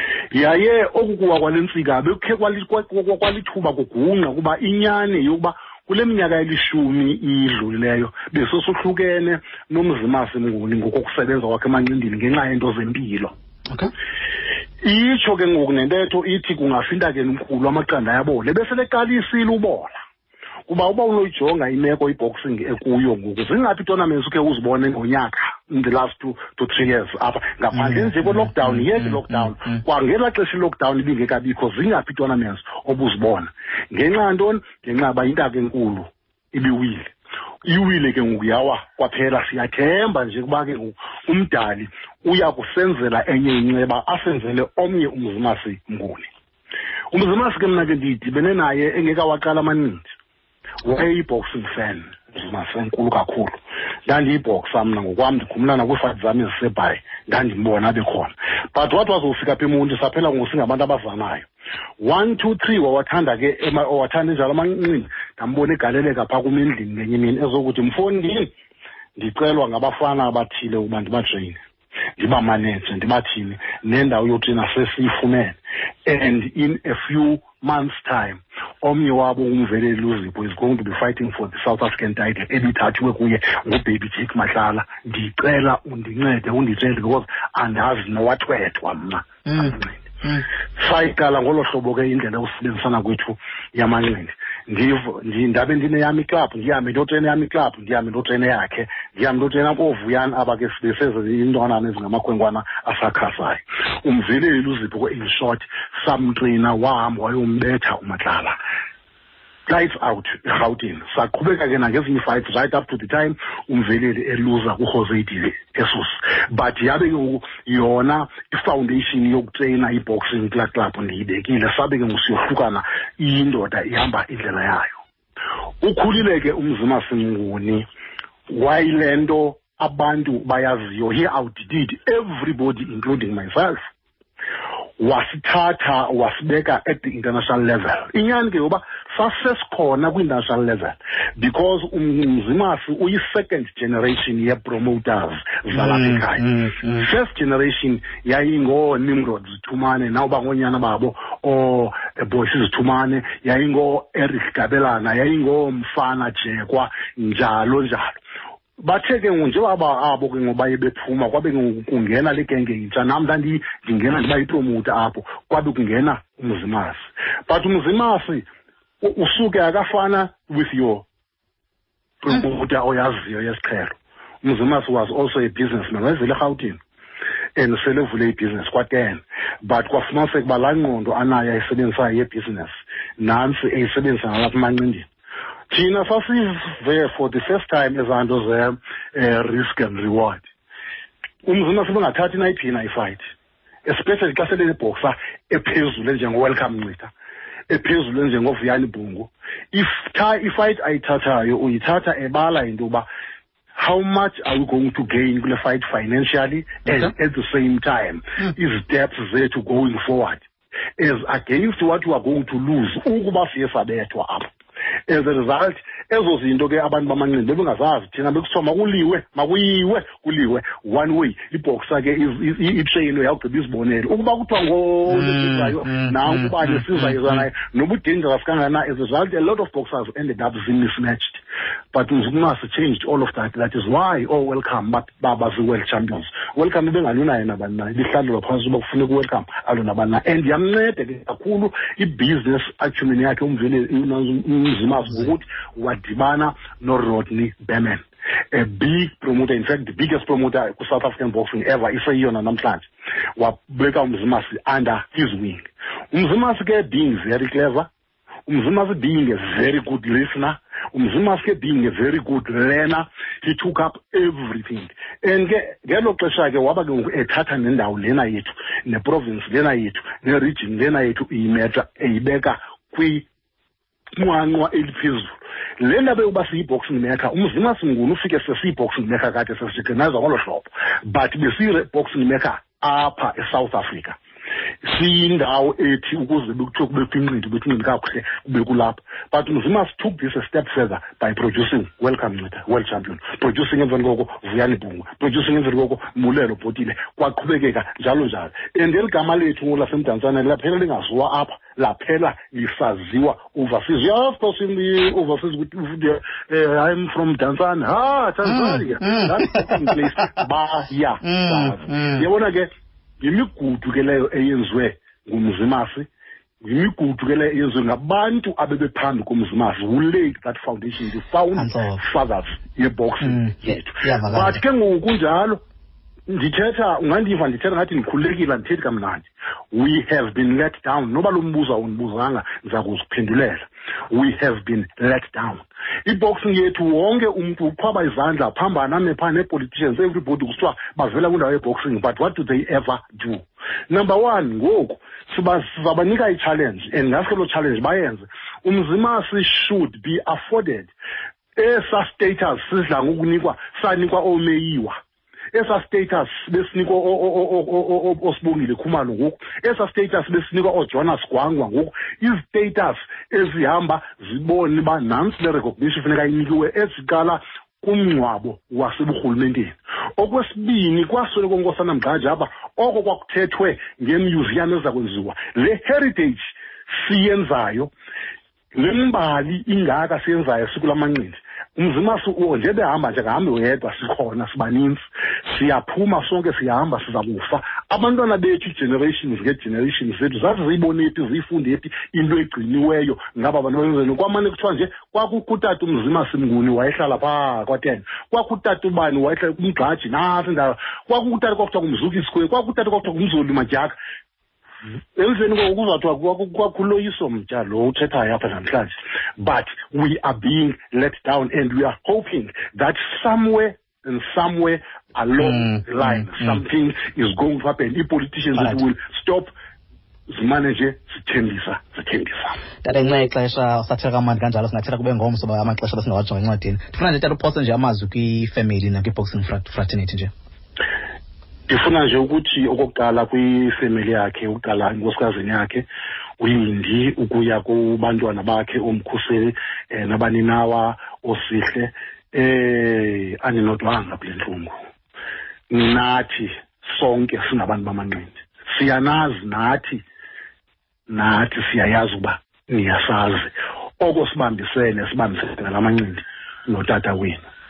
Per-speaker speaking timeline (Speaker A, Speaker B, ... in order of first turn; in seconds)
Speaker A: 0.3-13.3, 14.8-20.0, 20.7-37.1, 37.6-46.3, 47.1-50.1, 50.8-61.5, 62.0-68.5, 69.2-71.6, 72.2-90.0, 90.8-108.6, 109.7-125.0, 125.8-127.9, 128.5-133.8, 135.0-158.2, 158.8-168.4, 169.0-171.0, 172.2-176.8, 177.6-185.1, 185.7-190.5, 191.4-193.2, 193.8-197.1, 197.7-203.1, 203.8-210.4, 211.0-214.5, 215.1-231.4, 231.9-257.9, 258.5-273.3, 274.2-284.2, 284.8-316.1, 316.6-325.6, 326.3-350.9, 351.6-355.0, 355.5-376.5, 377.0-377.9, 378.8-403.9, 405.2-419.5, 420.3-422.6, 431.7-435.9, 436.4-444.8, 445.7-450.0, 451.1-457.4
Speaker B: 27.7-29.8, 89.5-90.5, 145.7-147.1, 225.1-227.4, 308.5-310.2, 311.2-312.2, 321.6-322.0, 323.2-324.6, 415.4-416.6, 418.6-418.8, 422.8-430.3